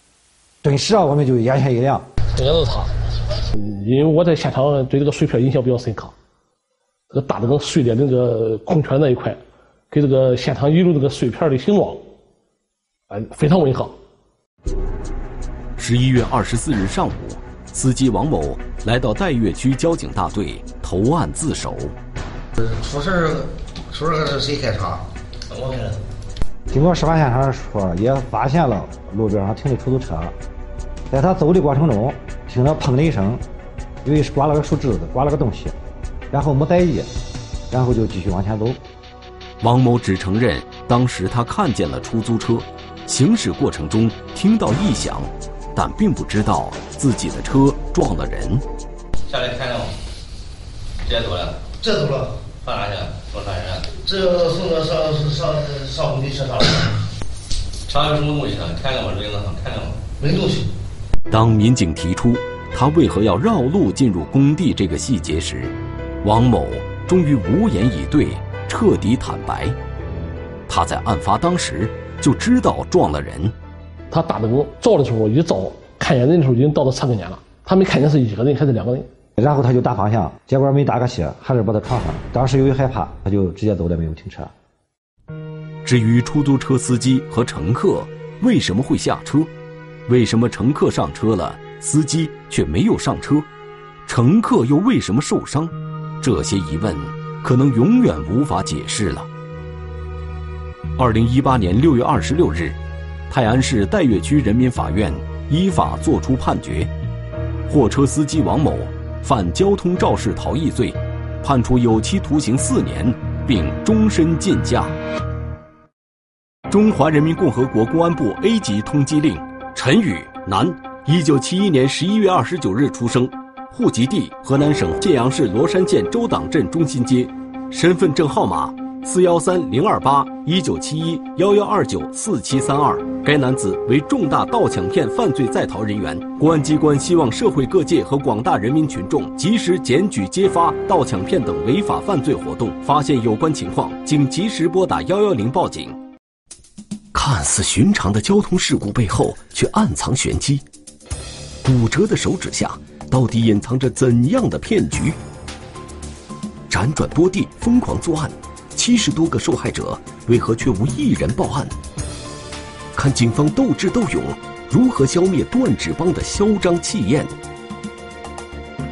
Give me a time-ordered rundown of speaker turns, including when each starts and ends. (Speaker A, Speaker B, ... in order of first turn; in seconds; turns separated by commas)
Speaker A: 0.6-2.1, Speaker B: 2.3-2.9, Speaker B: 3.5-6.1, Speaker B: 7.1-12.1, Speaker B: 13.1-14.0, Speaker C: 15.8-21.9, Speaker D: 22.6-25.0, Speaker E: 25.5-25.9, Speaker A: 26.7-30.4, Speaker A: 31.1-33.4, Speaker A: 34.0-35.7, Speaker A: 36.3-37.1, Speaker A: 37.7-38.8, Speaker C: 39.6-48.6, Speaker E: 49.3-49.9, Speaker E: 51.1-51.7, Speaker D: 51.8-52.3, Speaker E: 52.6-54.0, Speaker D: 54.1-56.5, Speaker E: 57.9-60.0, Speaker D: 60.2-60.6, Speaker C: 61.3-69.8, Speaker C: 70.7-73.5, Speaker B: 74.1-79.1, Speaker A: 79.4-84.5, Speaker C: 85.8-89.5, Speaker C: 90.1-93.5, Speaker C: 94.1-99.3, Speaker C: 101.0-102.8, Speaker C: 103.3-106.9, Speaker C: 107.7-115.0, Speaker C: 116.7-146.0, Speaker C: 147.1-150.6, Speaker C: 151.6-155.2, Speaker C: 156.7-161.8, Speaker C: 162.9-167.3